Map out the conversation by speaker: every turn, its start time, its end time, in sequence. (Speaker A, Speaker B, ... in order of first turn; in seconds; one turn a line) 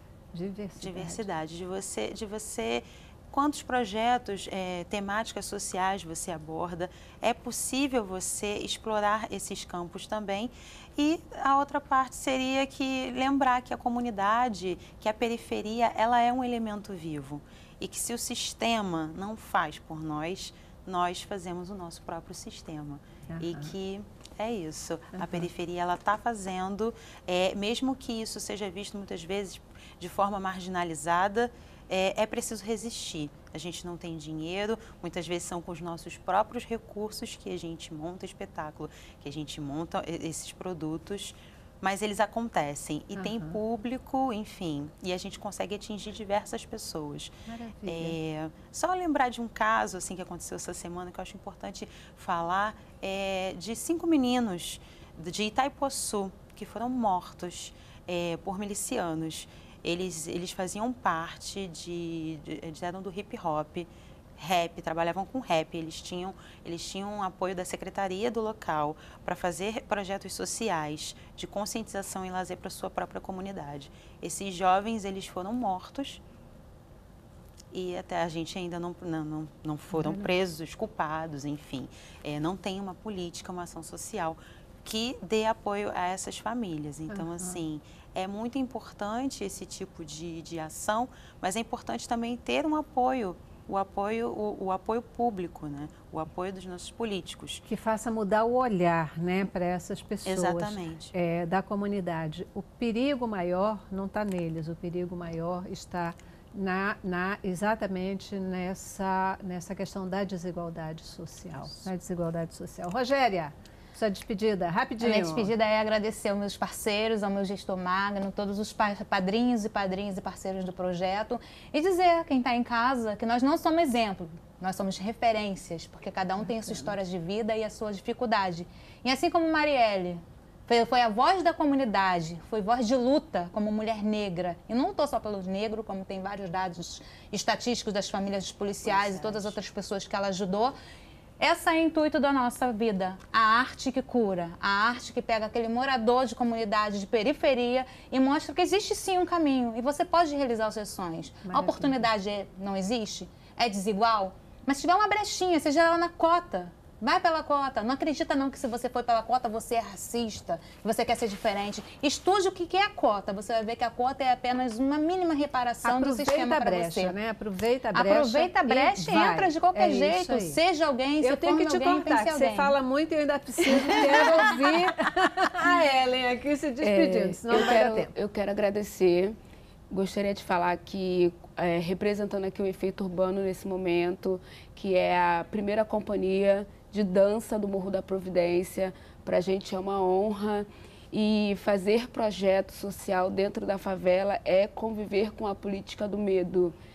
Speaker A: 0.3-1.3
Speaker B: 0.8-47.3
Speaker A: 23.3-23.7
Speaker A: 25.2-25.5
Speaker A: 43.1-43.6
Speaker A: 47.5-48.2
Speaker B: 47.9-76.2
Speaker B: 77.7-97.6
Speaker A: 79.9-80.3
Speaker A: 87.1-87.6
Speaker A: 97.7-115.5
Speaker B: 100.2-101.1
Speaker C: 115.0-140.8
Speaker A: 126.4-126.9
Speaker B: 138.8-139.5
Speaker C: 141.4-167.1
Speaker A: 151.4-152.1
Speaker A: 165.8-170.6
Speaker C: 167.9-172.8
Speaker A: 171.2-178.1
Speaker C: 174.0-174.4
Speaker D: 176.8-179.4
Speaker D: 179.9-196.8